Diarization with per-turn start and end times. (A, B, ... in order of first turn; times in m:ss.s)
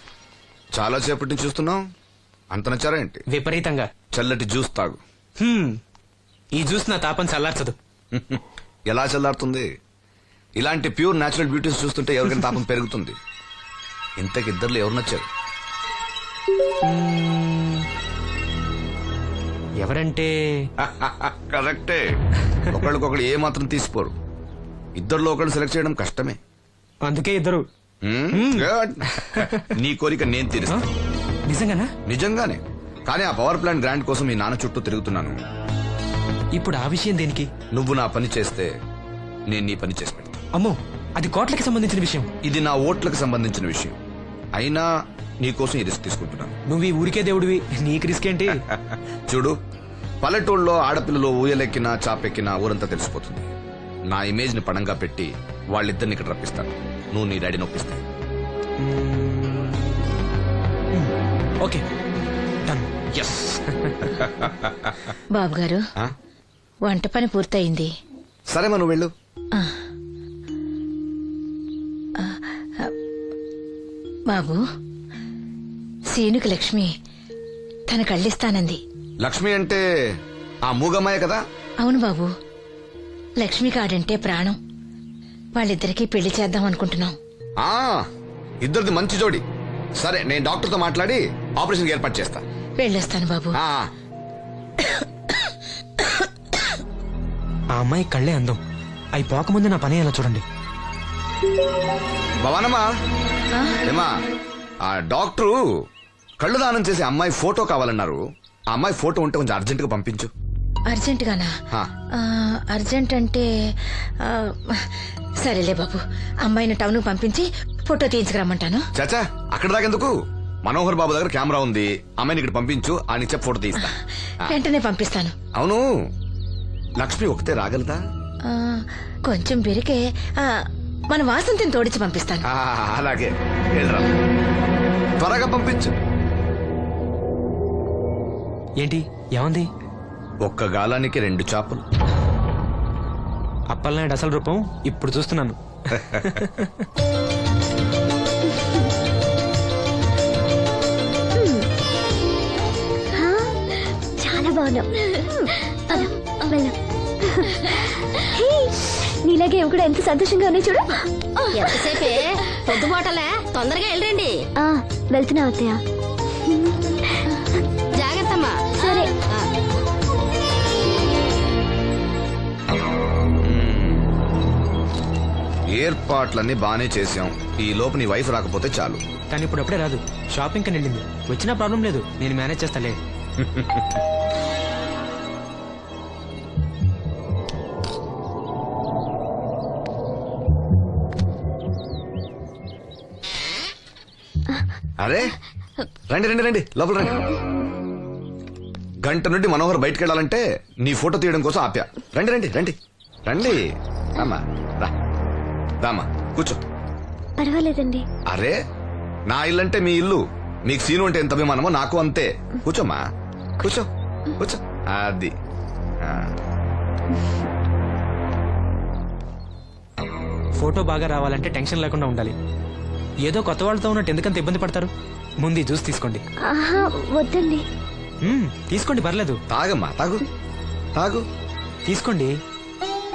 0:00.7-0:01.8 A
0:02.5-0:03.2 A
0:03.3-0:03.9 B
0:04.1-0:05.0 A
0:05.4-0:05.8 B
0:06.5-0:07.8 B
0:08.1-0:09.7 A
0:10.6-0:13.1 A
0:14.2-0:15.2 A
0:16.8-0:17.8 B
0:19.8-0:20.7 B
0:20.8-0:22.0 A
0:22.7-0:24.1 A
0:25.0-0:26.4 A
0:27.0-0:27.7 B
0:28.0-0:30.8 A
0:28.3-0:29.7 B
0:31.4-0:31.9 B
0:32.0-0:35.4 A
0:36.5-0:37.5 B
0:37.7-0:38.7 A
0:39.5-0:40.4 A
0:40.5-0:42.3 B
0:42.4-0:44.0 A
0:44.5-0:44.9 A
0:45.4-0:46.5 A
0:46.7-0:48.6 B
0:48.7-0:49.5 A
0:50.2-0:53.5 A
0:54.1-0:58.0 A
0:58.8-0:59.9 B
1:00.9-1:01.8 B
1:02.6-1:04.1 B
1:04.2-1:04.9 A
1:05.3-1:05.8 C
1:06.8-1:07.9 C
1:08.5-1:09.1 A
1:12.2-1:12.9 C
1:14.3-1:14.6 C
1:16.1-1:16.9 C
1:17.9-1:18.8 C
1:19.2-1:19.8 A
1:20.6-1:21.4 A
1:21.8-1:22.3 C
1:23.4-1:24.6 C
1:25.6-1:27.1 C
1:27.6-1:28.0 A
1:28.6-1:29.4 A
1:30.0-1:32.4 A
1:32.8-1:33.6 C
1:33.5-1:33.9 A
1:37.7-1:38.6 B
1:39.1-1:40.4 B
1:42.4-1:42.9 A
1:43.8-1:44.1 A
1:44.8-1:45.6 A
1:46.4-1:50.3 A
1:50.9-1:51.5 C
1:52.2-1:53.5 C
1:54.2-1:54.8 C
1:55.4-1:58.8 C
1:58.9-2:03.9 A
2:03.8-2:05.3 C
2:05.5-2:05.8 A
2:07.0-2:08.0 A
2:08.5-2:10.6 C
2:11.1-2:12.4 C
2:12.4-2:14.1 A
2:15.2-2:15.9 A
2:18.8-2:19.7 B
2:20.4-2:21.8 A
2:23.7-2:26.8 B
2:34.2-2:34.8 D
2:34.2-2:34.8 E
2:35.9-2:36.7 D
2:35.9-2:36.7 E
2:39.2-2:40.9 D
2:39.3-2:40.8 E
2:41.5-2:42.3 E
2:41.6-2:45.8 D
2:44.6-2:45.7 E
2:48.0-2:49.3 D
2:48.8-2:49.1 E
2:53.4-2:54.0 A
2:55.7-2:59.0 A
2:59.3-3:03.0 B
3:03.4-3:04.0 A
3:15.0-3:15.3 A
3:16.1-3:17.2 A
3:19.0-3:24.9 A
3:25.8-3:26.6 A
3:27.4-3:28.0 E
3:27.4-3:28.0 D
3:28.3-3:28.5 A
3:29.3-3:33.0 A
3:33.6-3:33.9 A
3:34.4-3:35.3 A
3:36.0-3:36.3 A
3:40.6-3:42.3 B
3:43.2-3:46.2 B
3:46.5-3:47.6 E
3:47.2-3:47.5 D
3:48.2-3:49.4 B
3:49.5-3:50.2 A
3:51.0-3:51.2 A
3:51.8-3:52.3 B